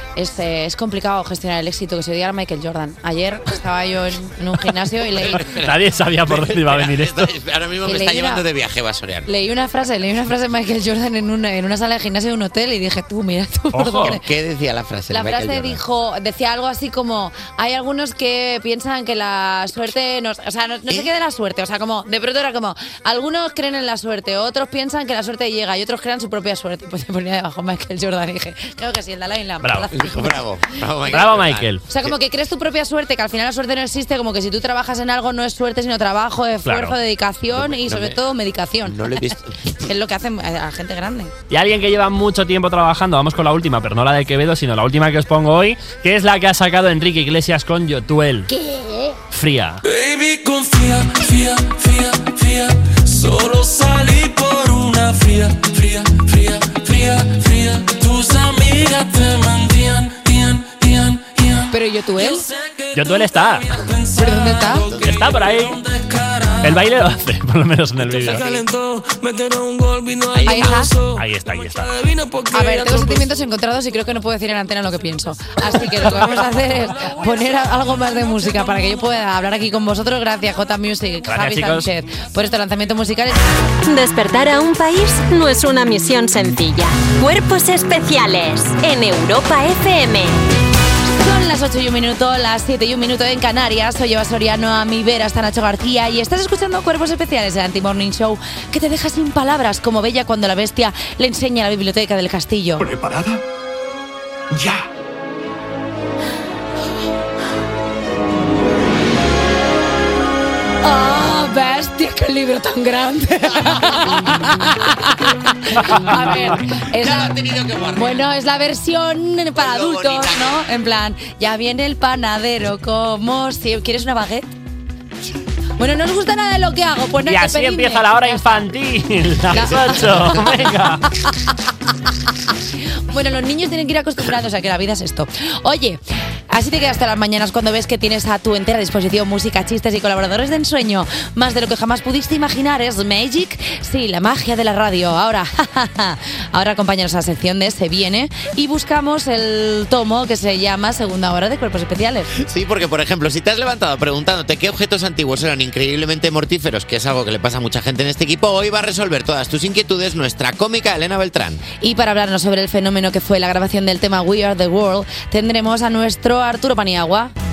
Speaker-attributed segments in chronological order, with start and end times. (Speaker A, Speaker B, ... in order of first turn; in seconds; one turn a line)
Speaker A: 0.2-5.5
Speaker B: 5.2-9.3
Speaker C: 5.5-7.3
Speaker A: 7.8-8.4
Speaker A: 9.3-14.2
Speaker C: 13.7-14.2
Speaker B: 14.0-15.8
Speaker A: 15.1-30.4
Speaker C: 29.6-29.9
Speaker B: 29.9-32.1
Speaker C: 31.1-31.8
Speaker A: 31.9-39.1
Speaker C: 36.6-37.0
Speaker B: 37.5-38.2
Speaker B: 38.9-39.6
Speaker A: 39.8-41.3
Speaker C: 41.5-48.5
Speaker C: 49.3-49.8
Speaker D: 49.8-67.1
Speaker A: 61.7-62.4
Speaker C: 63.0-63.7
Speaker A: 64.2-64.9
Speaker C: 65.0-65.8
Speaker C: 66.6-68.5
Speaker B: 68.0-68.6
Speaker D: 68.2-73.3
Speaker B: 70.3-70.7
Speaker A: 70.5-70.9
Speaker C: 71.2-71.9
Speaker A: 72.5-83.4
Speaker D: 76.2-77.5
Speaker D: 78.5-78.9
Speaker C: 81.3-81.9
Speaker E: 83.8-90.4
Speaker A: 91.1-102.9
Speaker A: 110.8-117.3
Speaker B: 116.9-118.3
Speaker A: 118.0-124.5
Speaker B: 119.6-120.6
Speaker A: 125.8-128.7
Speaker C: 127.3-131.1
Speaker A: 129.5-131.3
Speaker A: 133.1-152.3
Speaker B: 152.4-161.6
Speaker A: 161.8-167.3